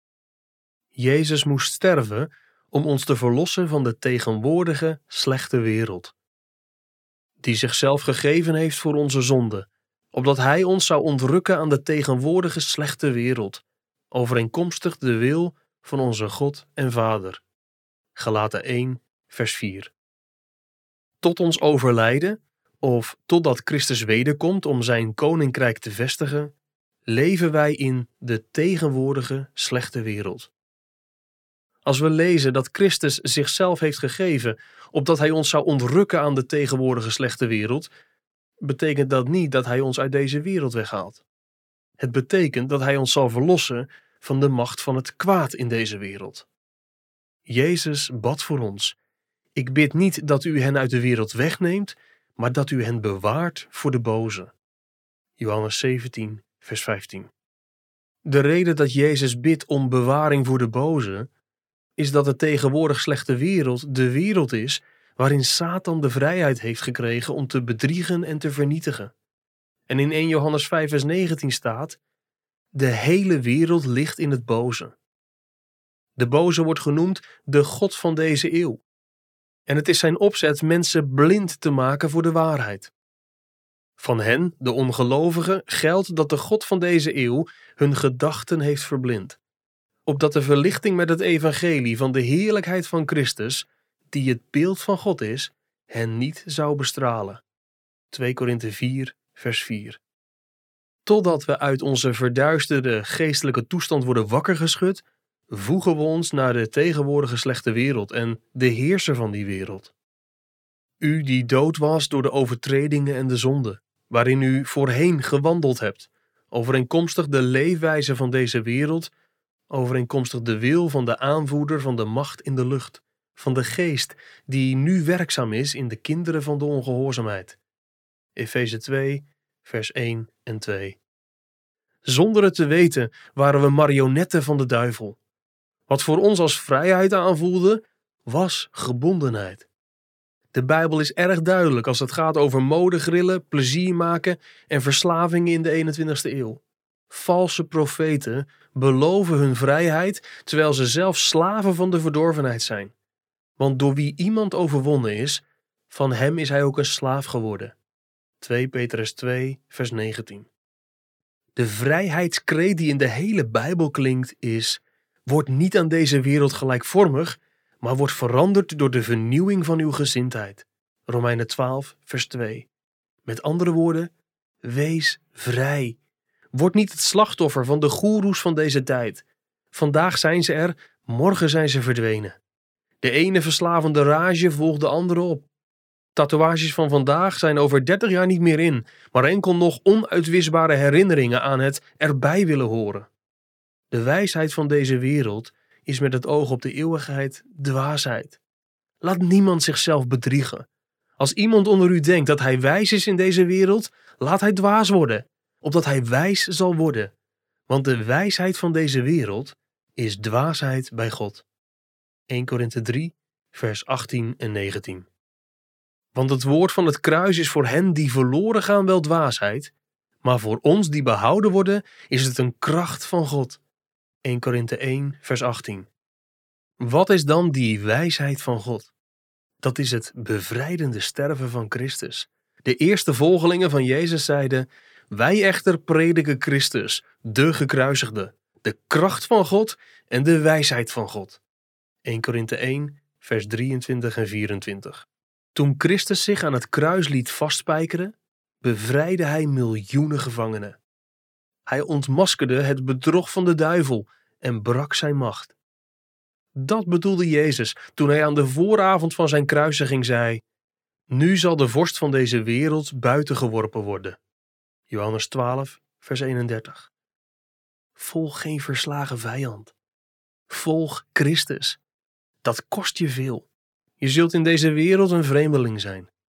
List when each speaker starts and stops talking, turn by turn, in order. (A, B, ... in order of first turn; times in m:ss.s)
0:01.0-0:06.1 A
0:07.4-0:17.4 A
0:18.2-0:19.9 A
0:21.2-0:26.5 A
0:27.1-0:30.5 A
0:31.8-0:37.9 A
0:38.6-0:41.2 A
0:42.0-0:46.5 A
0:47.5-0:49.0 A
0:49.6-0:54.5 A
0:55.4-0:57.3 A
0:58.2-1:01.3 A
1:02.0-1:09.1 A
1:09.9-1:12.0 A
1:12.7-1:15.0 A
1:16.2-1:18.8 A
1:19.7-1:22.9 A
1:24.0-1:29.4 A
1:30.1-1:37.4 A
1:38.1-1:40.0 A
1:41.1-1:49.9 A
1:51.0-1:59.1 A
1:59.7-2:07.6 A
2:08.4-2:11.0 A
2:12.1-2:15.2 A
2:15.9-2:19.7 A
2:20.5-2:32.9 A
2:33.6-2:37.8 A
2:38.4-2:40.5 A
2:41.6-2:52.7 A
2:53.2-2:54.1 A
2:54.6-2:56.0 A
2:56.5-3:02.4 A
3:03.0-3:05.5 A
3:06.2-3:13.1 A
3:13.9-3:18.4 A
3:19.0-3:20.7 A
3:21.2-3:27.1 A
3:27.7-3:31.4 A
3:32.3-3:35.1 A
3:36.1-3:39.7 A
3:40.2-3:43.6 A
3:44.2-3:45.9 A
3:46.8-3:48.9 A
3:49.6-4:01.4 A
4:02.0-4:10.8 A
4:11.7-4:15.6 A
4:16.6-4:20.4 A
4:21.1-4:24.2 A
4:24.9-4:26.9 A
4:28.0-4:29.7 A
4:30.5-4:31.8 A
4:32.4-4:33.5 A
4:34.0-4:36.1 A